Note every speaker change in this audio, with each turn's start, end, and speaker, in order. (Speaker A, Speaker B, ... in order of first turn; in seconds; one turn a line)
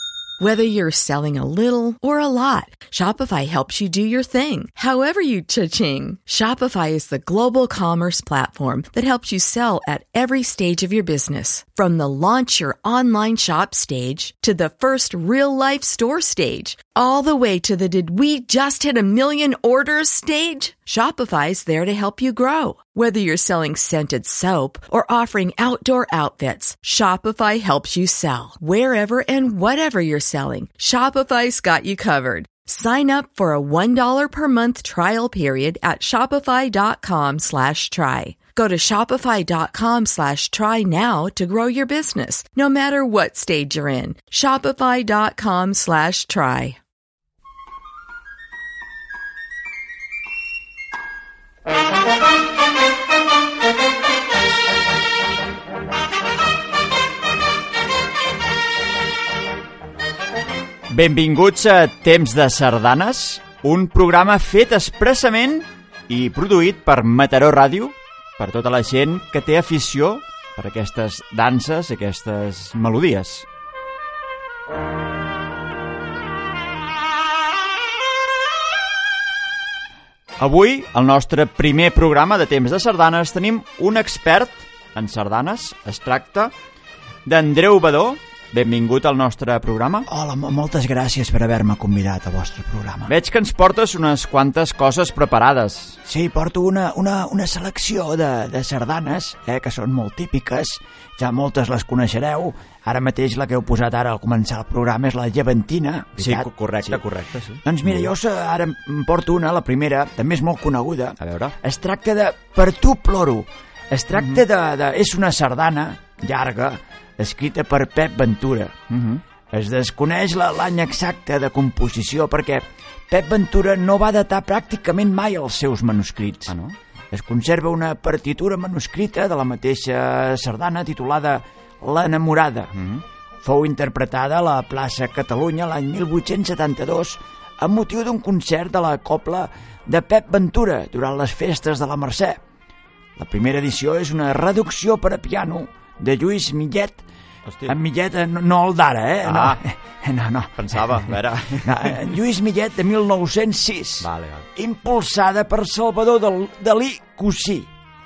Speaker A: 0.4-46.8
Speaker B: 60.9-73.5
Speaker B: 80.4-86.5
Speaker B: 87.2-90.1
Speaker C: 90.1-93.1
Speaker B: 93.1-96.0
Speaker C: 96.0-107.0
Speaker B: 106.2-108.1
Speaker C: 107.6-118.8
Speaker B: 111.2-111.5
Speaker B: 114.2-114.4
Speaker B: 118.9-119.2
Speaker C: 119.5-126.6
Speaker B: 126.5-126.8
Speaker C: 127.1-132.7
Speaker B: 132.7-133.0
Speaker C: 133.4-142.4
Speaker C: 143.2-147.1
Speaker B: 147.5-147.8
Speaker C: 147.7-157.7
Speaker B: 149.2-149.6
Speaker B: 150.6-152.1
Speaker B: 154.0-154.5